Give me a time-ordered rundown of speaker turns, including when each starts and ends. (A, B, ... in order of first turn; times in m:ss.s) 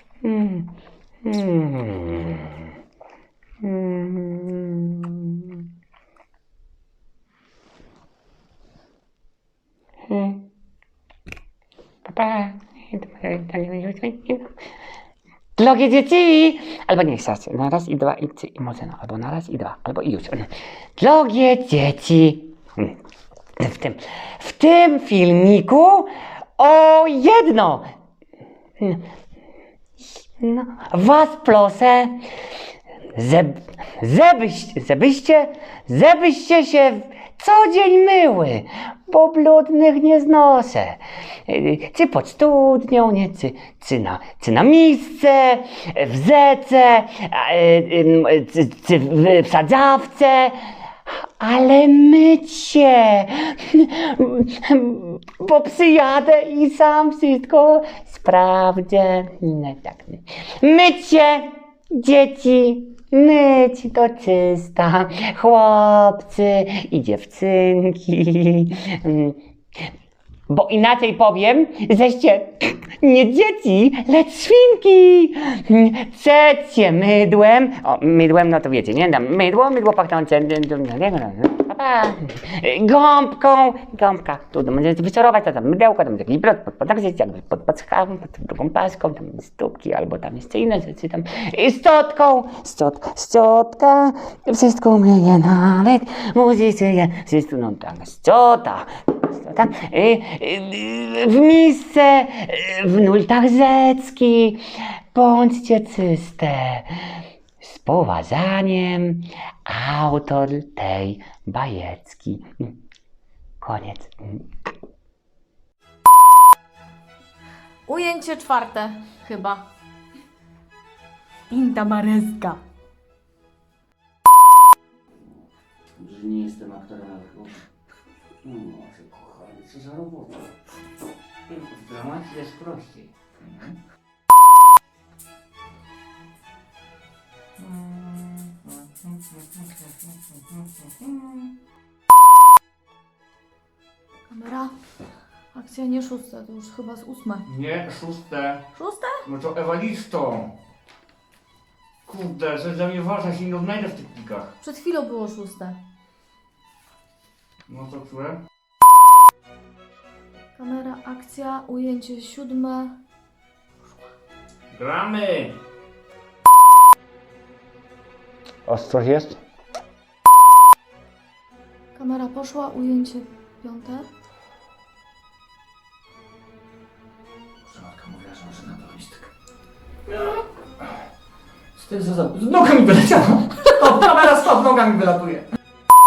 0:00.2-0:00.7 A
0:01.2-0:02.6 A
0:03.6-0:05.6 A
0:10.1-0:10.5 A
0:12.0-0:14.5 A
0:15.6-0:22.9 A
0:23.6-0:27.9 A
0:30.2-0:32.2 A
0:33.1-0:50.6 A
0:51.1-1:09.4 A
1:10.5-1:52.7 A
1:53.6-1:54.4 A
1:57.9-1:59.7 B
2:01.5-2:02.6 B
2:06.0-2:07.6 A
2:08.4-2:10.4 A
2:11.5-2:13.1 A
2:13.4-2:13.7 C
2:17.6-2:19.4 C
2:24.3-2:24.7 B
2:25.5-2:27.4 B
2:27.5-2:28.6 C
2:28.7-2:29.2 B
2:29.3-2:30.5 C
2:32.1-2:34.5 C
2:34.6-2:35.8 B
2:37.7-2:38.4 C
2:40.6-2:43.0 B
2:44.7-2:45.6 C
2:48.7-2:49.0 A
2:49.0-2:49.3 C
2:52.0-2:54.1 B
2:57.6-2:59.3 C
3:01.8-3:05.4 C